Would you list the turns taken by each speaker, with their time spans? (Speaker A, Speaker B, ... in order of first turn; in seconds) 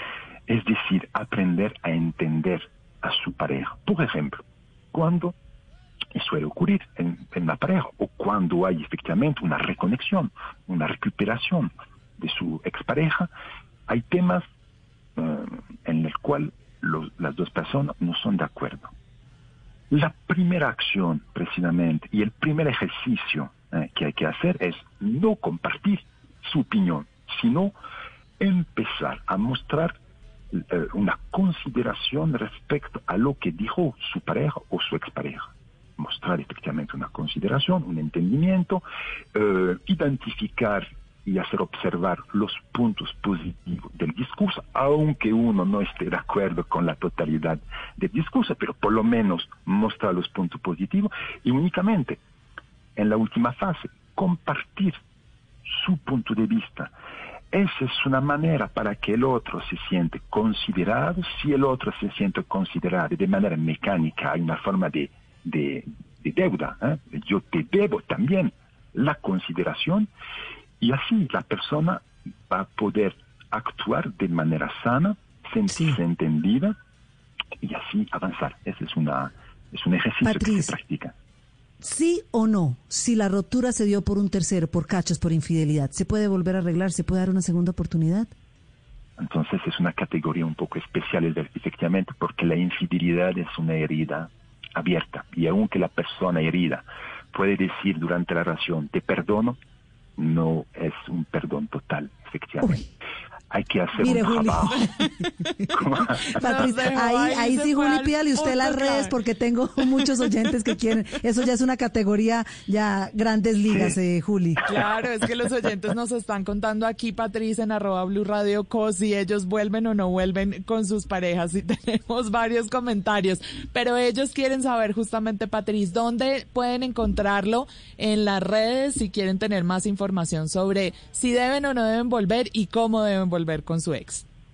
Speaker A: 0.5-5.4, 6.1-13.3, 13.9-14.4, 15.2-18.9, 19.9-27.8, 28.4-30.0, 30.5-38.8, 39.4-52.2, 53.0-55.0, 55.7-56.9, 57.5-70.1, 70.8-76.8, 77.6-81.2, 89.2-99.6, 100.2-102.8, 103.5-104.8, 105.7-106.5
Speaker B: 75.7-76.0, 80.2-80.8, 81.8-88.3, 104.0-114.6
Speaker C: 106.3-109.1, 114.7-134.2